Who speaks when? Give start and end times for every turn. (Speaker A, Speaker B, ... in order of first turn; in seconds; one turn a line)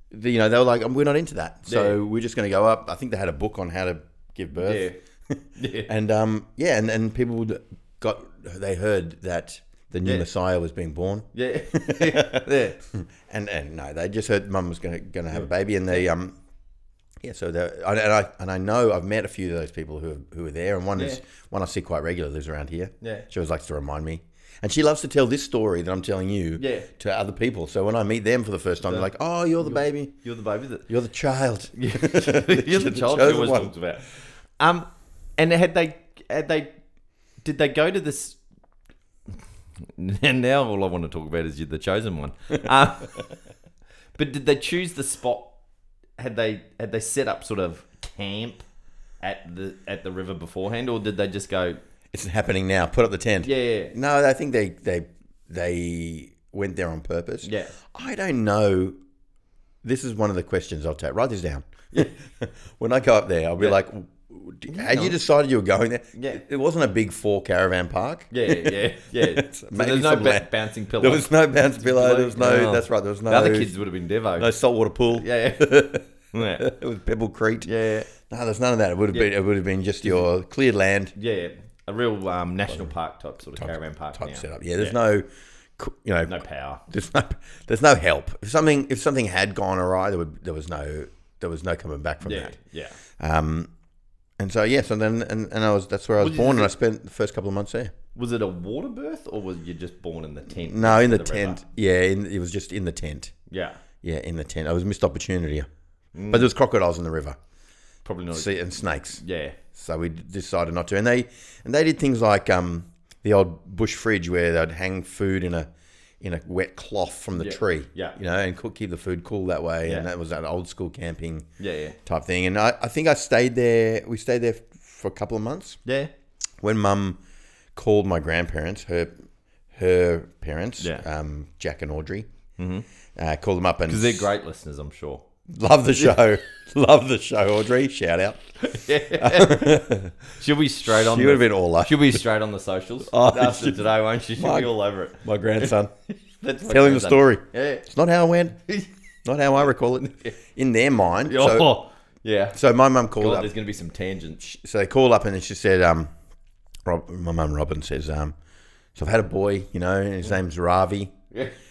Speaker A: 0.1-4.9
Speaker B: 1.7-2.0
Speaker B: 4.6-5.0
Speaker B: 5.6-5.9
Speaker A: 5.8-16.4
Speaker B: 11.3-12.8
Speaker B: 15.3-16.1
Speaker A: 17.2-30.1
Speaker B: 20.9-21.2
Speaker B: 23.0-23.3
Speaker B: 26.6-26.9
Speaker B: 29.6-30.9
Speaker A: 30.9-33.8
Speaker B: 31.8-36.7
Speaker B: 37.4-38.4
Speaker B: 39.3-43.3
Speaker B: 44.1-45.5
Speaker B: 46.2-48.6
Speaker B: 49.2-51.8
Speaker A: 52.1-59.0
Speaker B: 53.4-53.9
Speaker B: 57.4-57.8
Speaker A: 59.8-73.7
Speaker B: 64.7-65.2
Speaker B: 66.2-66.4
Speaker B: 68.3-74.5
Speaker A: 74.4-77.7
Speaker B: 75.1-75.8
Speaker B: 76.3-76.7
Speaker B: 77.7-78.1
Speaker A: 78.3-81.2
Speaker B: 81.2-85.0
Speaker A: 83.6-85.3
Speaker A: 85.8-92.6
Speaker B: 86.3-86.8
Speaker B: 92.2-93.0
Speaker A: 93.2-93.7
Speaker A: 94.4-97.9
Speaker B: 96.2-96.7
Speaker B: 98.2-101.6
Speaker A: 100.5-103.3
Speaker B: 103.5-103.8
Speaker A: 104.0-105.7
Speaker B: 106.2-106.5
Speaker A: 106.3-107.4
Speaker B: 108.0-108.5
Speaker A: 108.3-109.2
Speaker B: 109.2-109.6
Speaker A: 109.7-115.7
Speaker A: 116.2-121.5
Speaker B: 117.4-118.2
Speaker B: 121.6-122.0
Speaker A: 122.0-125.8
Speaker B: 125.9-126.1
Speaker A: 126.6-127.2
Speaker A: 127.8-129.1
Speaker A: 129.7-132.3
Speaker B: 130.8-131.1
Speaker B: 132.6-132.8
Speaker A: 133.2-134.3
Speaker B: 133.9-135.3
Speaker A: 135.5-138.5
Speaker B: 138.6-145.8
Speaker A: 139.1-140.3
Speaker A: 140.9-142.2
Speaker A: 143.1-145.9
Speaker B: 146.3-147.8
Speaker A: 146.7-148.6
Speaker A: 149.2-151.8
Speaker B: 150.0-150.3
Speaker B: 151.2-152.6
Speaker A: 152.5-153.5
Speaker B: 153.2-154.4
Speaker A: 154.4-156.1
Speaker A: 156.8-158.3
Speaker A: 159.0-161.2